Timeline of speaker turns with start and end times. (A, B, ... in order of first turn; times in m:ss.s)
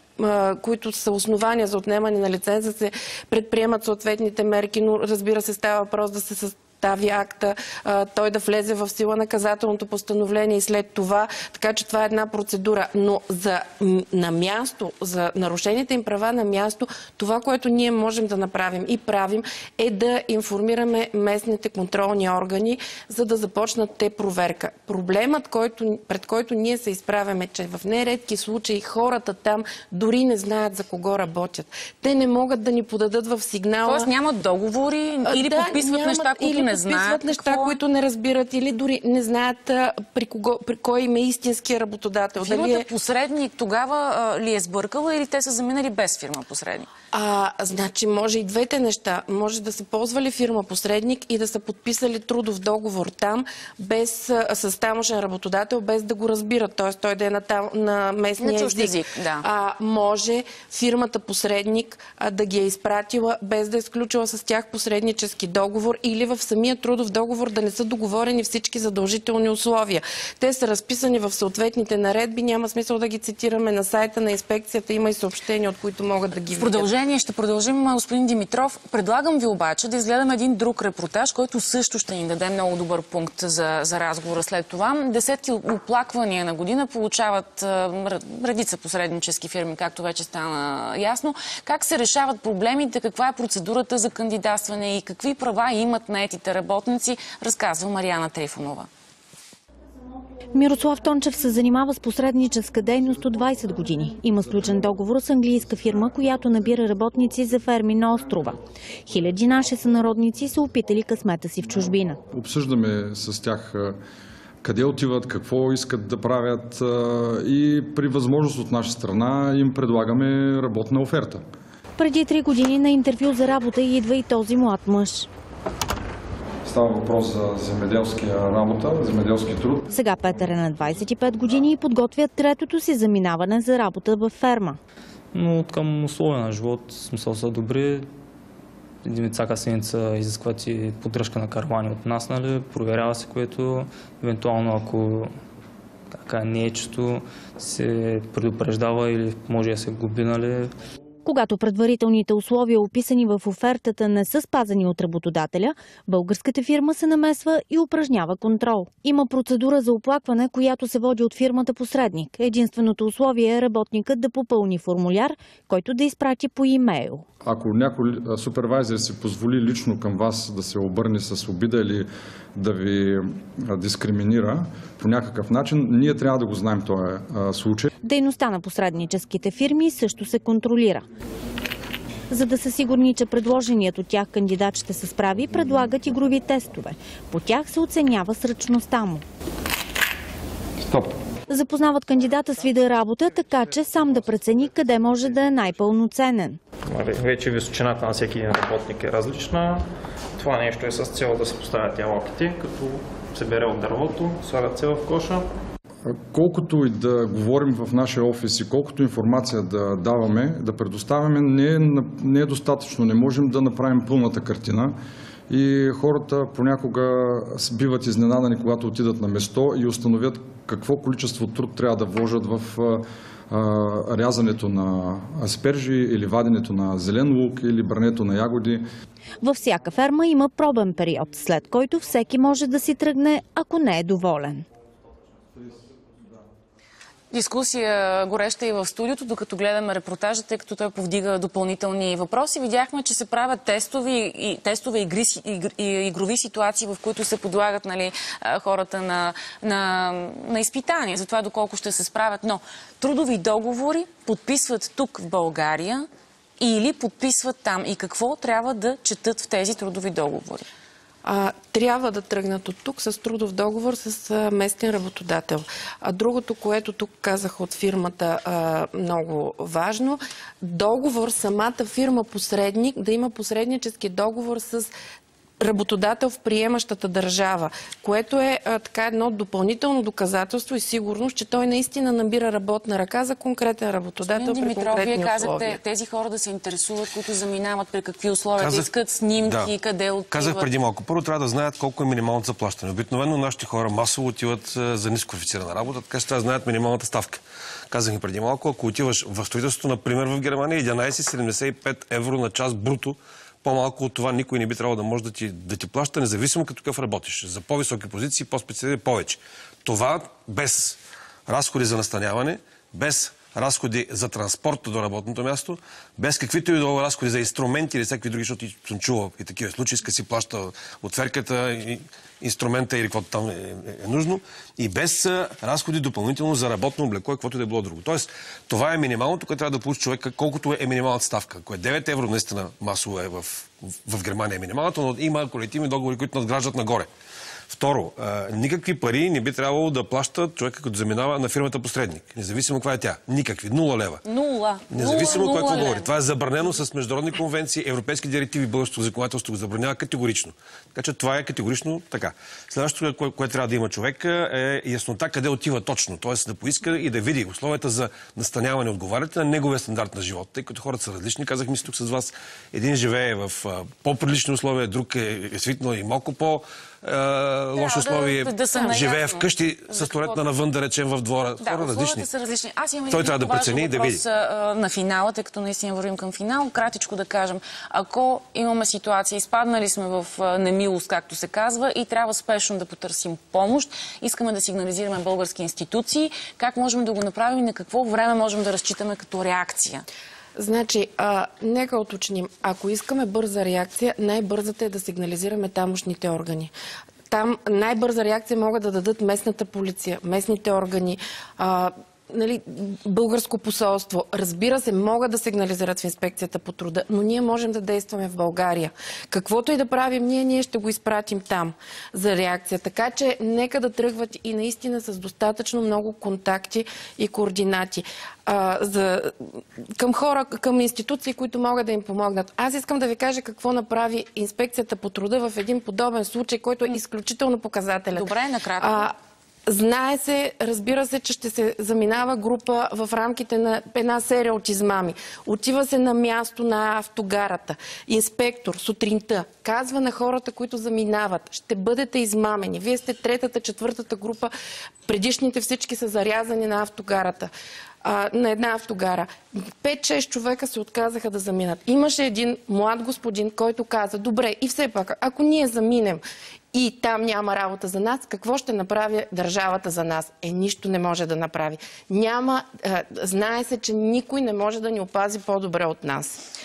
0:00.2-0:34.1 A
0:33.8-0:37.8 B
0:35.2-0:42.9 A
0:42.4-0:46.9 B
0:47.1-1:16.9 A
0:58.4-0:59.5 B
1:16.5-1:38.9 B
1:40.5-1:52.2 C
1:52.3-1:54.0 D
1:54.6-2:01.4 D
2:02.0-2:05.3 C
2:06.6-2:09.9 D
2:09.9-2:14.8 C
2:15.3-2:18.1 E
2:19.0-2:25.3 E
2:26.2-2:30.7 E
2:31.2-2:47.2 C
2:47.4-2:57.9 D
2:58.0-3:01.1 C
3:02.3-3:09.2 C
3:11.5-3:16.6 C
3:16.9-3:19.8 F
3:20.4-3:25.5 F
3:26.1-3:35.0 D
3:35.5-3:48.8 D
3:49.4-3:54.6 C
3:57.3-4:16.0 B
4:16.6-4:20.7 B
4:21.2-4:34.9 A
4:35.6-4:45.8 A
4:44.2-4:50.7 B
4:48.6-4:48.9 G
4:49.4-4:49.7 G
4:50.3-5:37.1 G
5:37.7-5:44.2 G
5:44.2-5:46.1 B
5:44.9-6:12.3 G
6:07.8-6:10.4 B
6:11.6-6:30.0 B
6:13.1-6:14.2 G
6:30.6-6:36.7 A
6:37.3-7:09.1 A
7:08.1-7:09.1 B
7:09.7-7:24.5 A
7:25.1-7:27.5 A
7:28.0-7:46.4 A